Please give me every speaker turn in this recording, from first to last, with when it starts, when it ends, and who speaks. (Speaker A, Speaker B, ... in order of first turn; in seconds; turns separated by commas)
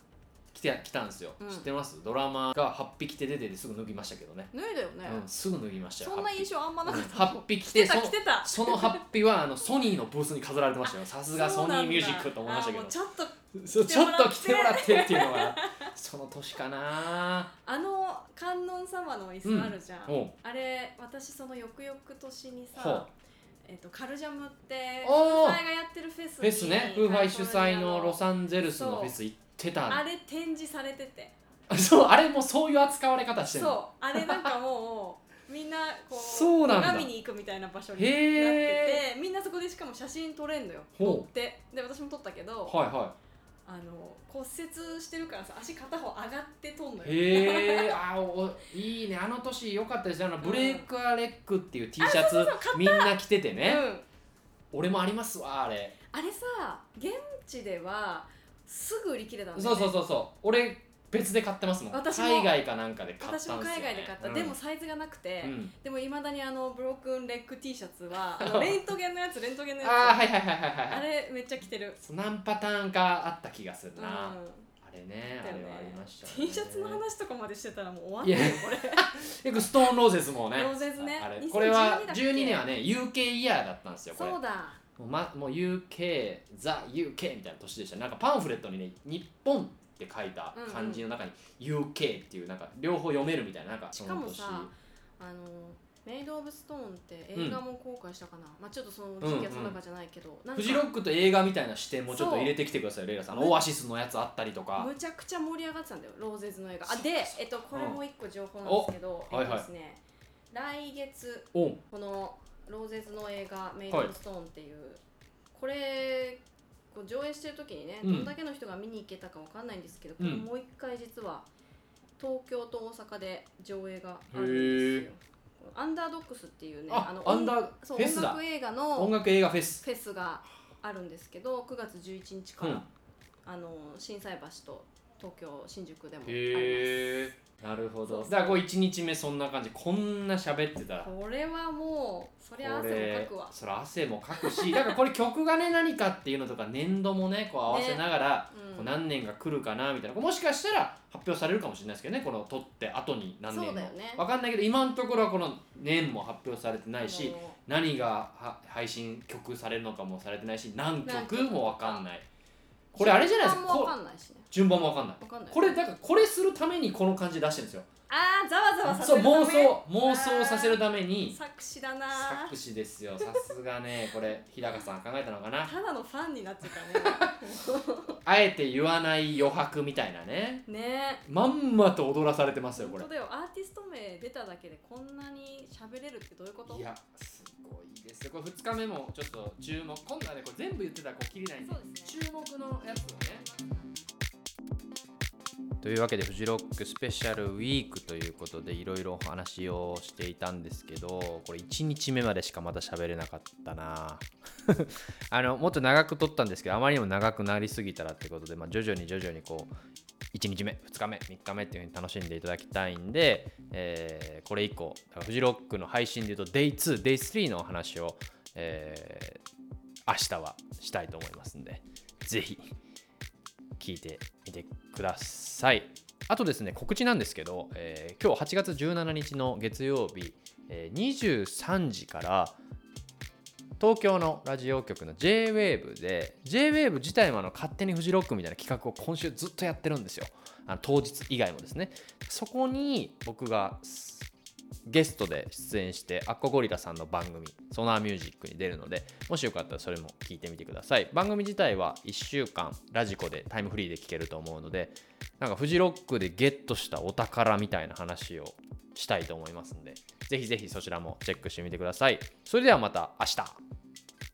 Speaker A: 0.5-4.5, Speaker B: 1.4-1.7, Speaker B: 4.5-5.2, Speaker A: 5.0-13.0, Speaker B: 6.0-9.1, Speaker B: 10.8-15.9, Speaker A: 13.5-17.5, Speaker B: 17.6-23.1, Speaker A: 19.4-20.3, Speaker A: 22.8-23.1, Speaker B: 23.7-29.1, Speaker A: 25.0-25.6, Speaker A: 26.4-30.0, Speaker B: 29.9-31.3, Speaker A: 31.7-34.5, Speaker B: 33.5-42.8, Speaker A: 36.1-37.1, Speaker A: 37.9-39.0, Speaker A: 41.0-41.3, Speaker A: 42.7-43.1, Speaker B: 43.7-48.0, Speaker A: 47.0-53.9, Speaker B: 50.4-50.9, Speaker B: 52.0-54.0, Speaker A: 54.7-56.0, Speaker B: 56.1-60.0, Speaker A: 59.5-64.6, Speaker B: 61.9-62.6, Speaker B: 63.2-70.2, Speaker A: 65.4-65.7, Speaker A: 68.3-68.8, Speaker A: 69.8-71.1, Speaker B: 70.9-72.0, Speaker A: 72.0-77.0, Speaker B: 74.0-74.7, Speaker B: 75.4-80.0, Speaker A: 78.2-84.4, Speaker B: 80.5-82.7, Speaker B: 84.1-84.8, Speaker A: 85.0-94.7, Speaker B: 90.5-91.0, Speaker B: 93.9-100.9, Speaker A: 99.2-99.8, Speaker A: 100.5-104.9, Speaker B: 102.1-102.5, Speaker B: 103.3-103.7, Speaker B: 104.8-110.0, Speaker A: 106.9-108.0, Speaker A: 108.7-109.7, Speaker B: 110.5-115.0, Speaker A: 111.5-111.8, Speaker B: 115.5-116.4, Speaker B: 116.9-121.5, Speaker A: 118.0-118.3, Speaker A: 120.2-120.5, Speaker B: 122.2-129.2, Speaker A: 124.3-125.1, Speaker A: 126.9-128.4, Speaker A: 128.9-129.8, Speaker B: 129.8-132.8, Speaker A: 132.6-132.9, Speaker B: 133.5-137.3, Speaker A: 136.2-141.1, Speaker B: 138.1-138.6, Speaker B: 141.0-143.5, Speaker A: 142.6-162.3, Speaker B: 144.4-144.9, Speaker B: 147.7-148.9, Speaker B: 153.5-154.2, Speaker B: 157.0-157.6, Speaker B: 161.1-162.0, Speaker A: 162.9-163.9, Speaker B: 163.0-164.5, Speaker A: 164.5-167.9, Speaker B: 165.2-165.8, Speaker B: 168.1-172.6, Speaker A: 168.9-171.4, Speaker A: 172.1-175.7, Speaker B: 175.6-178.2, Speaker A: 177.0-177.3, Speaker A: 178.2-180.7, Speaker B: 180.7-181.2, Speaker A: 181.3-183.1, Speaker B: 182.8-186.8, Speaker A: 186.7-193.5, Speaker B: 191.6-192.2, Speaker B: 193.4-193.9, Speaker A: 195.8-209.7, Speaker A: 210.3-219.4, Speaker A: 220.1-222.7, Speaker A: 223.8-232.6, Speaker A: 233.8-244.3, Speaker A: 244.9-263.6